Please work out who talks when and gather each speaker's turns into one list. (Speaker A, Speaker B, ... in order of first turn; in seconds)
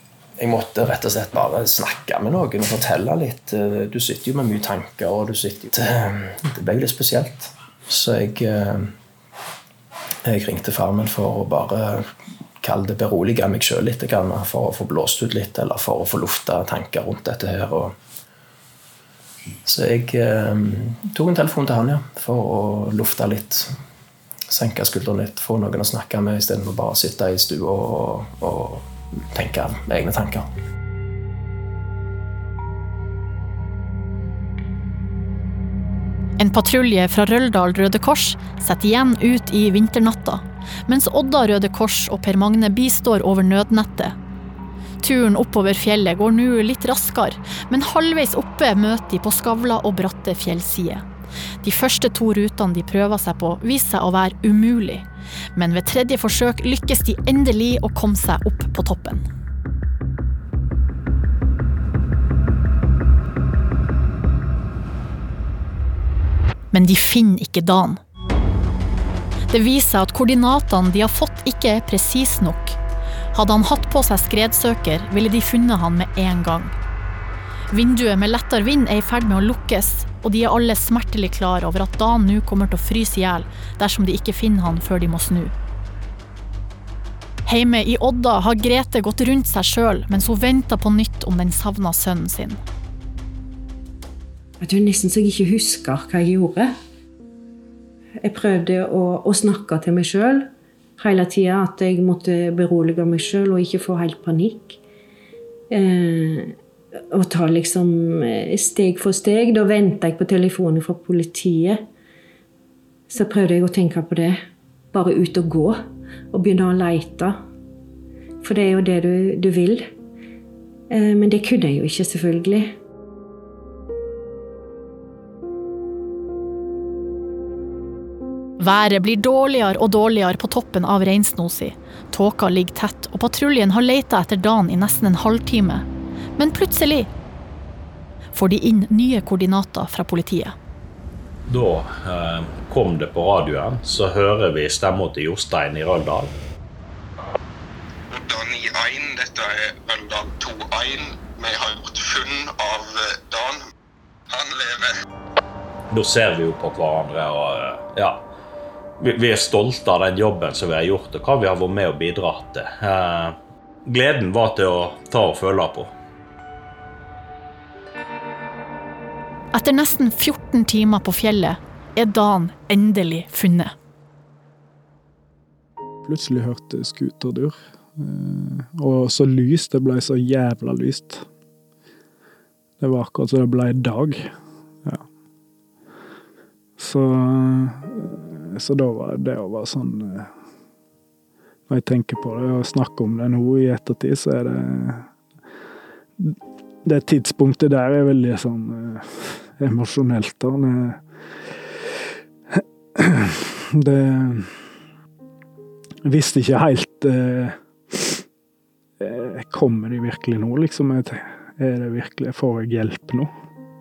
Speaker A: 0.4-8.9, 10.2-12.1, 12.6-17.9, 19.6-23.7, 24.5-30.5
Speaker B: 36.4-44.1, 45.0-51.0, 51.6-59.2, 66.7-68.0, 69.5-72.8, 73.3-76.8, 77.7-85.5, 87.5-92.6, 128.6-135.8, 136.4-137.1, 138.3-140.5, 169.5-173.7
Speaker C: 94.6-96.7, 98.2-104.8, 105.7-106.5, 107.1-111.8, 113.1-114.4, 114.9-115.8, 116.3-117.4, 118.4-119.9, 120.9-122.8
Speaker D: 141.4-146.3, 155.9-158.2, 159.0-165.9
Speaker E: 148.1-153.6, 154.3-154.9
Speaker F: 176.0-181.3, 182.8-184.3, 186.8-190.3, 191.7-195.1, 196.2-201.9, 202.5-204.7, 206.0-208.2, 209.0-213.3